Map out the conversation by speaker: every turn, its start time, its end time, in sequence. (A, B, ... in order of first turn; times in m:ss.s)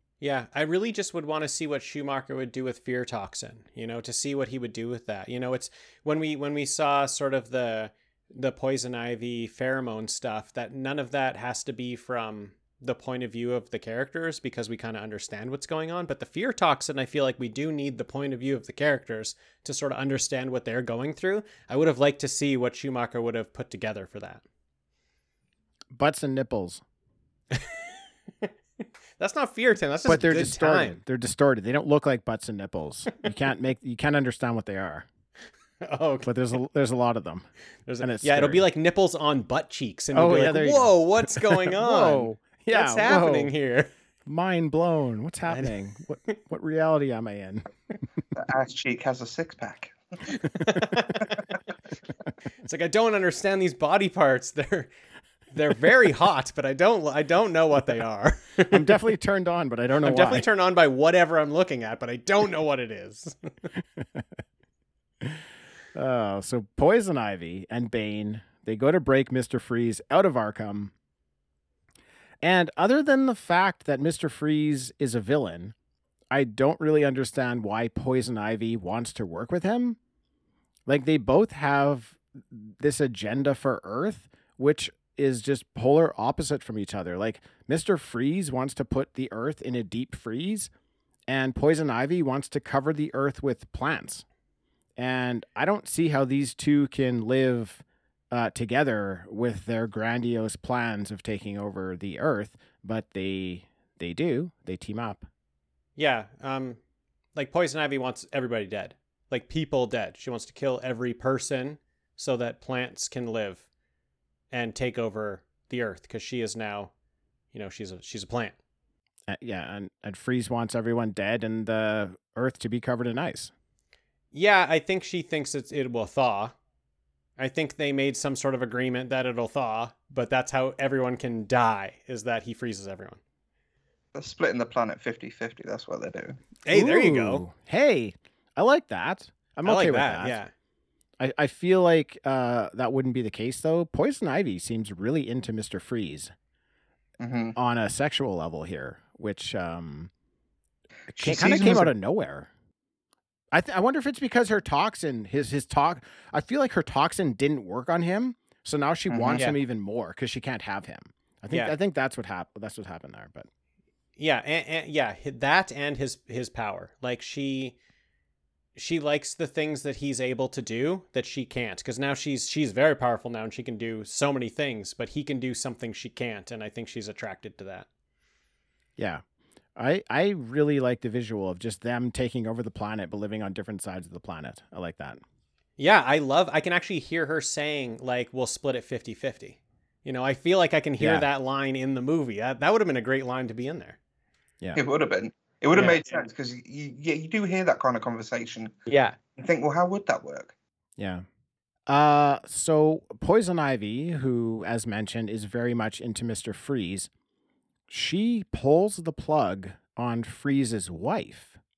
0:00.2-0:24.4 A
0:25.9-0:26.8 B
0:29.2-0:31.0 A
0:30.0-0:35.1 B
0:35.8-0:36.3 A
0:36.2-0:37.5 B
0:37.8-0:43.9 A
0:38.0-0:38.6 B
0:40.1-0:43.5 B
0:44.2-0:47.7 B
0:45.5-0:45.8 A
0:48.4-0:49.9 C
0:50.3-0:51.3 A
0:52.6-0:54.9 A
0:55.5-0:59.0 A
0:58.7-1:00.5 B
1:00.0-1:03.5 A
1:04.0-1:04.3 B
1:05.2-1:10.9 B
1:12.4-1:15.7 B
1:16.3-1:20.0 B
1:20.9-1:30.7 B
1:31.3-1:34.2 B
1:35.0-1:45.3 B
1:46.0-1:46.8 A
1:47.4-1:53.6 A
1:54.5-1:56.9 A
1:57.5-1:58.5 A
1:59.3-2:03.5 B
2:04.3-2:06.5 A
2:07.4-2:13.2 A
2:14.1-2:16.4 C
2:16.6-2:17.4 A
2:16.7-2:20.4 B
2:19.6-2:20.5 A
2:21.2-2:26.3 B
2:27.2-2:27.5 C
2:27.6-2:30.1 B
2:31.1-2:32.5 B
2:31.1-2:31.9 C
2:33.5-2:43.5 B
2:39.1-2:39.4 C
2:41.5-2:41.7 A
2:44.2-2:47.8 A
2:48.8-2:57.9 A
2:59.0-2:59.2 B
2:59.8-3:05.2 B
3:05.8-3:14.0 A
3:11.0-3:11.3 B
3:14.7-3:18.8 C
3:15.7-3:16.0 A
3:18.9-3:19.1 A
3:19.4-3:20.5 C
3:21.0-3:21.2 B
3:21.9-3:27.1 B
3:27.9-3:31.6 B